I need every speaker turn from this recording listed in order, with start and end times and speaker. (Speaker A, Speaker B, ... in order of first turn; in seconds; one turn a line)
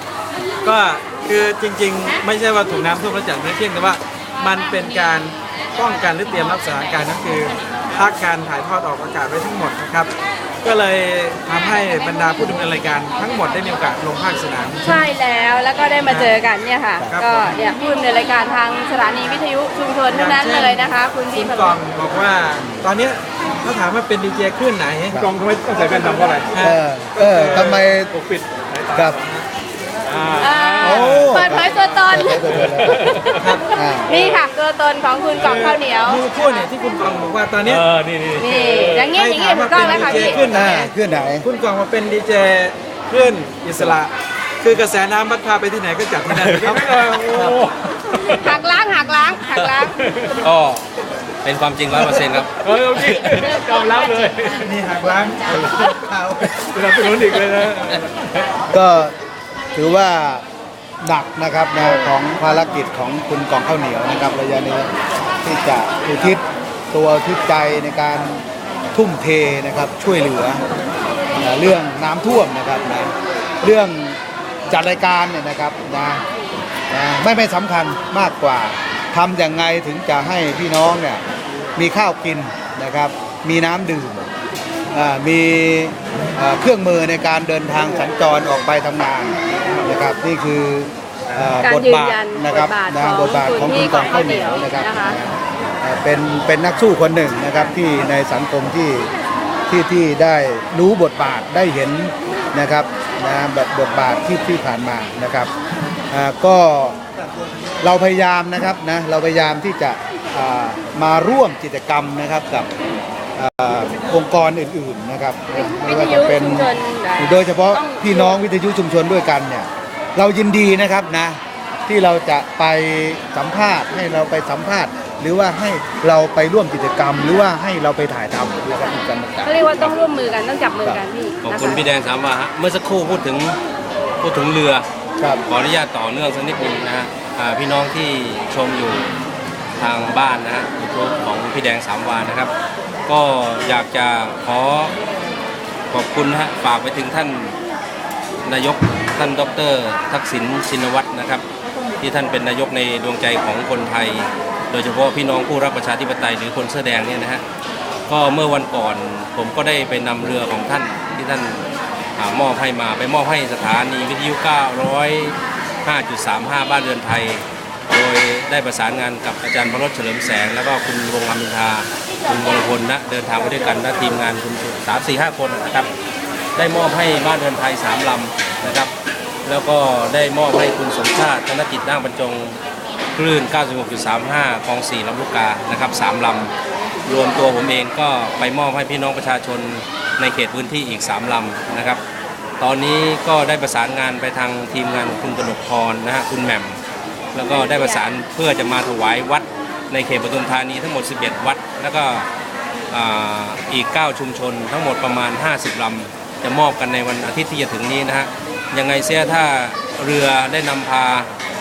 Speaker A: 0.6-10.1
Speaker A: 10.6-14.9
Speaker B: 14.8-21.8
Speaker A: 16.1-16.3
Speaker A: 17.1-17.5
Speaker A: 20.1-27.9
Speaker C: 26.6-28.1
Speaker D: 28.1-29.1
Speaker C: 28.9-29.2
Speaker A: 29.1-29.4
Speaker D: 30.1-31.8
Speaker B: 30.4-33.4
Speaker C: 30.8-33.2
Speaker D: 32.4-33.5
Speaker C: 33.7-34.1
Speaker B: 34.0-36.6
Speaker A: 35.4-37.8
Speaker D: 37.6-39.1
Speaker B: 38.4-40.4
Speaker A: 39.1-47.5
Speaker D: 39.7-40.5
Speaker C: 40.5-41.5
Speaker D: 46.4-48.6
Speaker B: 48.4-50.0
Speaker D: 50.0-50.3
Speaker E: 50.3-50.9
Speaker E: 51.4-53.4
Speaker A: 52.9-53.5
Speaker D: 53.0-54.5
Speaker A: 54.5-58.0
Speaker C: 55.7-56.5
Speaker C: 58.7-59.1
Speaker C: 59.7-60.4
Speaker C: 61.0-64.9
Speaker C: 65.4-70.6
Speaker C: 71.4-74.2
Speaker C: 74.7-76.2
Speaker C: 76.9-81.2
Speaker C: 81.8-84.3
Speaker C: 84.9-99.1
Speaker B: 91.6-95.2
Speaker B: 97.5-97.7
Speaker C: 99.7-105.5
Speaker C: 106.1-107.0
Speaker C: 107.8-112.7
Speaker C: 113.3-129.9
Speaker B: 115.5-118.4
Speaker B: 129.4-131.8
Speaker E: 131.4-133.6
Speaker E: 134.2-134.8
Speaker E: 135.4-139.1
Speaker E: 139.8-142.5
Speaker E: 143.1-144.9
Speaker E: 145.9-147.6
Speaker E: 148.4-151.4
Speaker E: 152.0-157.4
Speaker E: 158.1-161.6
Speaker E: 162.2-175.9
Speaker E: 176.6-178.9
Speaker E: 179.4-182.6
Speaker E: 183.2-186.5
Speaker E: 187.1-192.0
Speaker E: 192.6-196.8
Speaker E: 197.3-202.3
Speaker B: 197.5-198.1
Speaker E: 202.9-211.3